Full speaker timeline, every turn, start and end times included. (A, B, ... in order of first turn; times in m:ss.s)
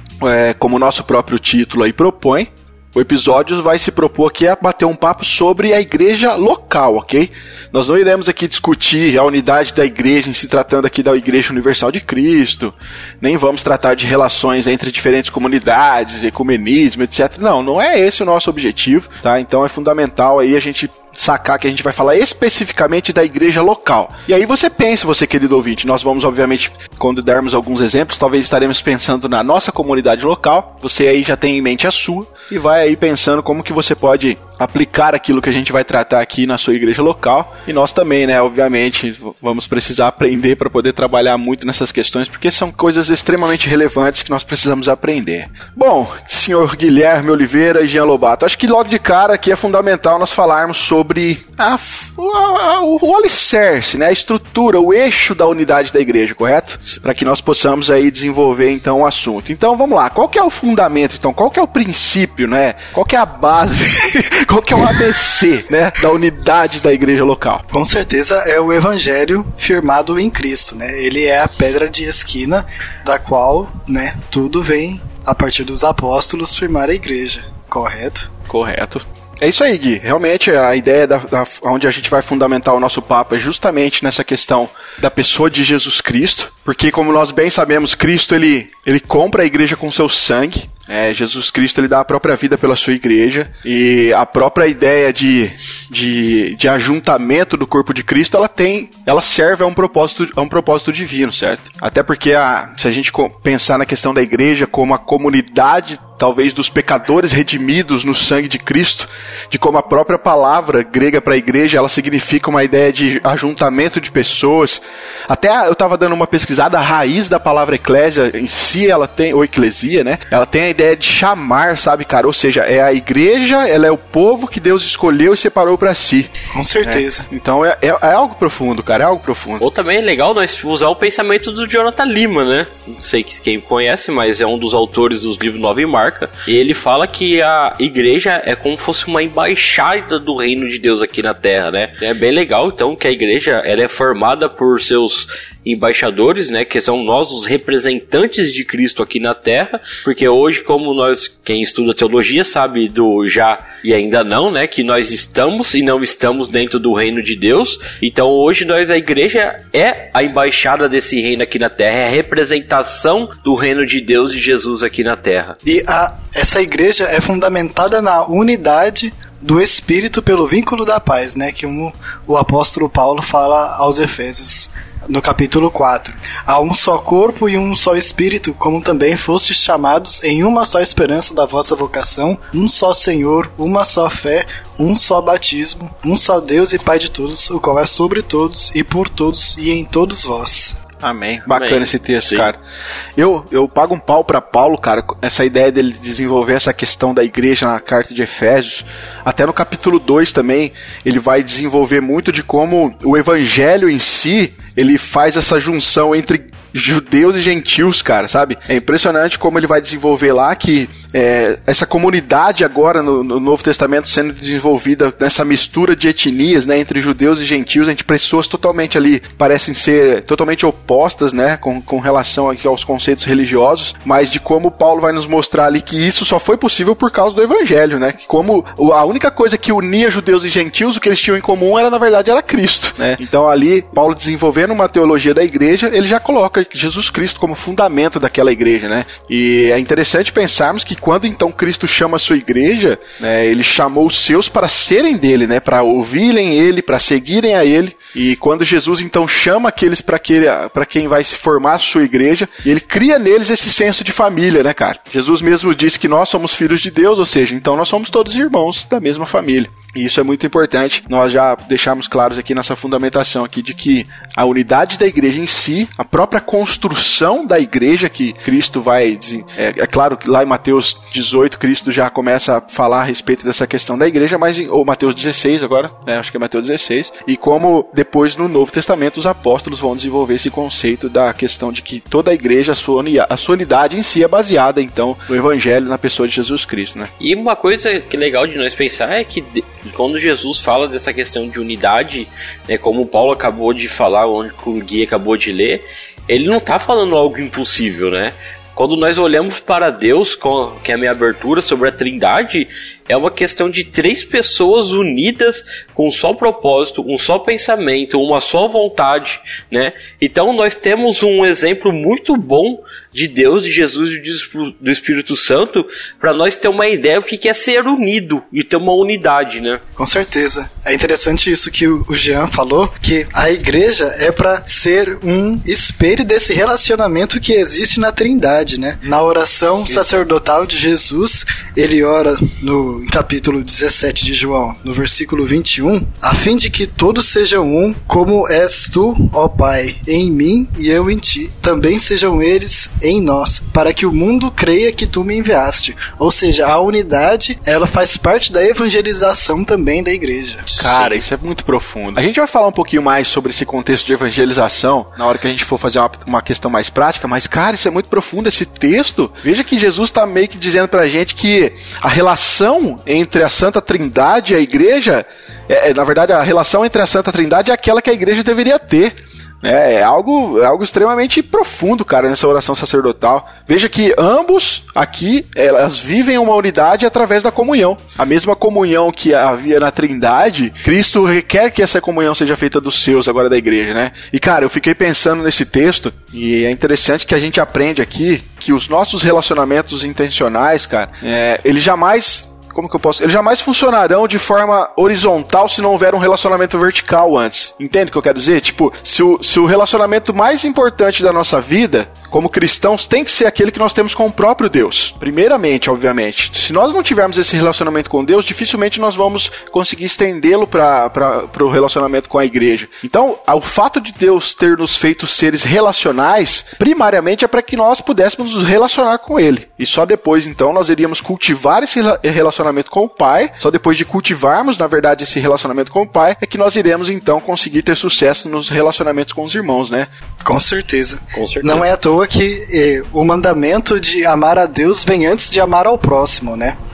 0:00.2-1:07.6 A
1:07.7-1:18.3 B
1:18.5-2:09.6 A
2:06.5-2:07.2 B
2:09.6-2:45.6 C
2:45.6-3:10.8 B
3:11.0-3:12.6 A
3:11.5-3:12.5 C
3:13.2-4:47.1 A
4:47.2-5:19.8 C
5:20.0-5:51.0 B
5:29.9-5:30.2 C
5:50.8-7:10.1 A
5:50.9-5:51.2 C
7:10.4-7:16.8 B
7:11.3-7:11.9 C